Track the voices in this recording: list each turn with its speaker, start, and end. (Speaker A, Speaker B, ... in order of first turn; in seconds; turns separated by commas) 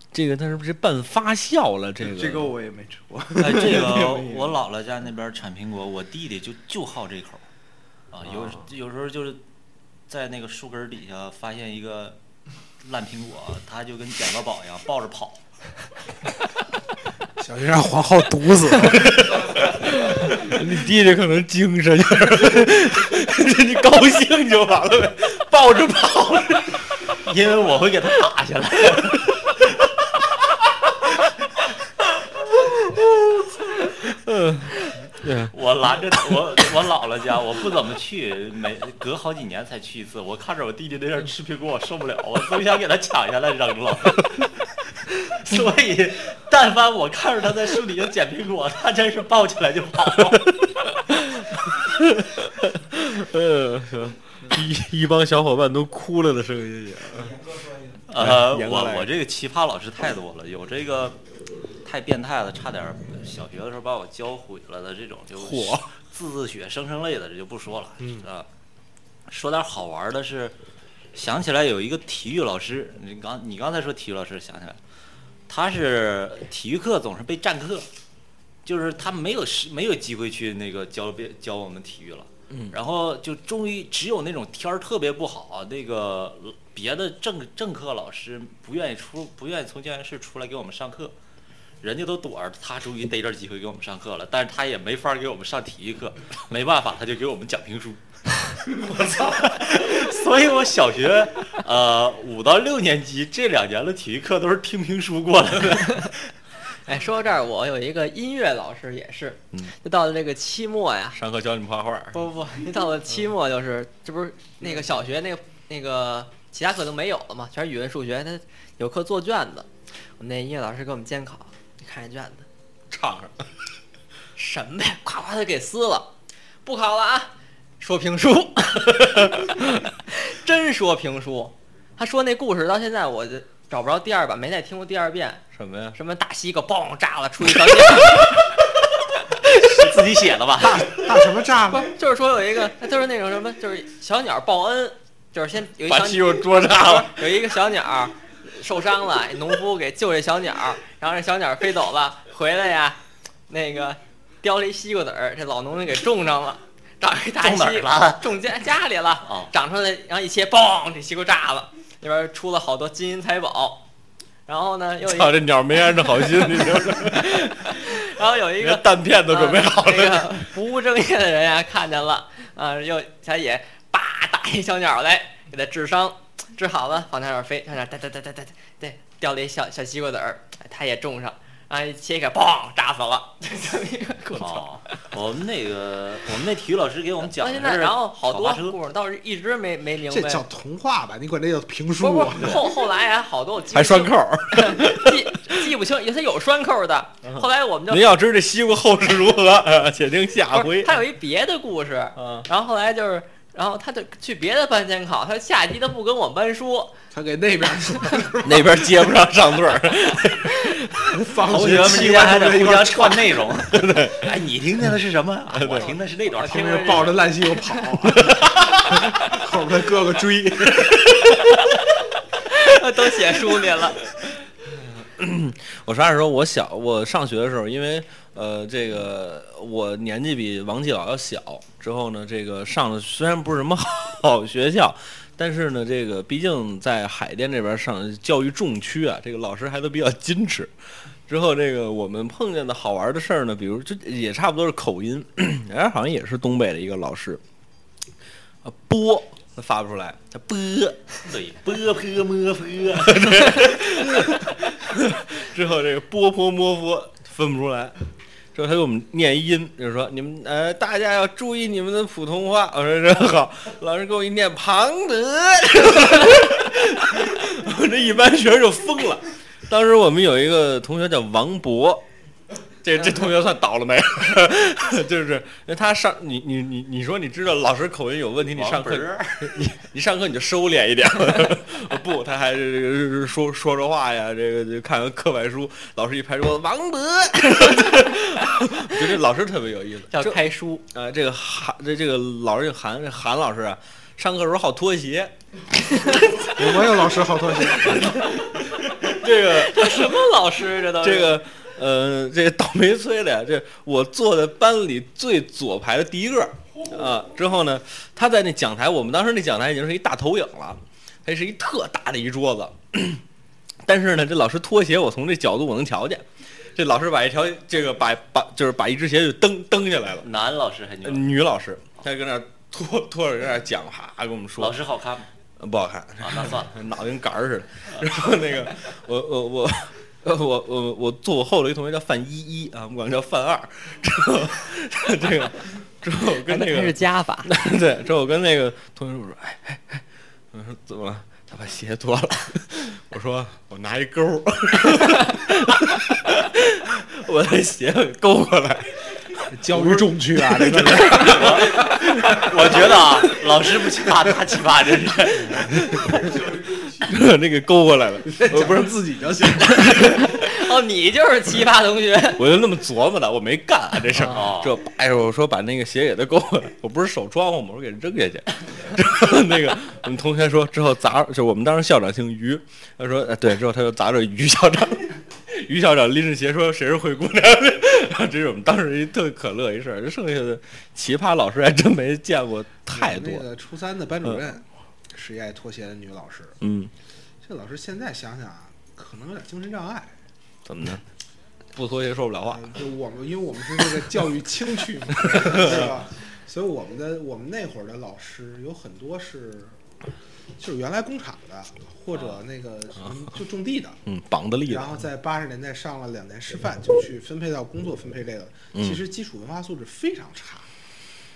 Speaker A: 0.1-2.5, Speaker B: 2.0-4.6, Speaker C: 3.4-7.4, Speaker C: 8.1-9.4, Speaker A: 8.2-8.6, Speaker C: 10.1-12.2, Speaker C: 12.8-15.4, Speaker D: 17.4-19.4, Speaker A: 18.9-26.8, Speaker C: 27.2-29.3, Speaker A: 33.1-35.5, Speaker C: 35.5-44.5, Speaker C: 45.3-50.5, Speaker A: 51.4-57.5, Speaker C: 58.1-61.2, Speaker A: 58.1-59.1, Speaker C: 61.8-68.5, Speaker A: 65.3-65.9, Speaker D: 68.0-68.2, Speaker C: 69.3-70.5, Speaker C: 71.1-74.8, Speaker C: 75.5-77.9, Speaker C: 78.7-91.1, Speaker A: 82.5-82.8, Speaker C: 91.8-106.1, Speaker E: 106.8-111.2, Speaker A: 111.1-112.2, Speaker E: 112.1-122.5, Speaker A: 122.9-123.5, Speaker E: 124.3-126.1, Speaker E: 126.6-135.4, Speaker A: 135.5-136.0, Speaker E: 135.9-138.4, Speaker C: 139.5-141.1, Speaker D: 140.6-141.9, Speaker E: 141.7-153.0, Speaker A: 145.9-147.2, Speaker E: 153.5-163.8, Speaker C: 157.4-158.3, Speaker C: 159.2-159.5, Speaker E: 164.5-184.7, Speaker A: 165.0-168.0, Speaker A: 168.6-170.5, Speaker C: 184.4-188.8, Speaker E: 187.2-190.4, Speaker D: 190.1-192.6, Speaker E: 192.0-198.2, Speaker A: 193.7-195.3, Speaker A: 197.2-201.0, Speaker E: 200.5-207.0, Speaker A: 202.2-202.5, Speaker D: 207.1-209.0, Speaker A: 208.4-211.2, Speaker D: 211.1-213.6, Speaker C: 211.4-217.0, Speaker A: 213.7-214.3, Speaker A: 215.5-215.9, Speaker E: 215.7-217.8, Speaker D: 216.4-221.1, Speaker E: 222.4-224.0, Speaker A: 225.0-240.7, Speaker A: 241.3-247.4, Speaker A: 248.6-251.1, Speaker C: 251.2-254.3, Speaker A: 253.0-257.9, Speaker A: 258.5-272.1, Speaker A: 272.8-290.4, Speaker C: 278.5-279.6, Speaker E: 290.1-290.8, Speaker A: 290.9-295.3, Speaker A: 296.1-296.9, Speaker D: 296.5-298.1, Speaker A: 297.7-300.1, Speaker E: 299.5-301.4, Speaker A: 301.0-313.2, Speaker A: 313.8-320.3, Speaker C: 320.2-321.3, Speaker A: 321.0-324.8, Speaker C: 324.6-325.3, Speaker A: 325.6-352.5, Speaker C: 326.2-326.8, Speaker E: 336.5-337.5, Speaker D: 349.5-351.9, Speaker C: 351.2-355.9, Speaker A: 355.5-360.5, Speaker D: 358.2-360.1, Speaker E: 359.9-362.5, Speaker A: 362.4-383.4, Speaker C: 364.2-364.8, Speaker D: 382.9-386.6, Speaker A: 386.6-386.9, Speaker D: 387.4-390.2, Speaker A: 390.6-391.0, Speaker A: 391.7-392.8, Speaker D: 392.5-399.8, Speaker A: 395.2-395.9, Speaker D: 400.6-404.0, Speaker A: 404.1-405.0, Speaker D: 404.6-410.7, Speaker A: 408.7-409.0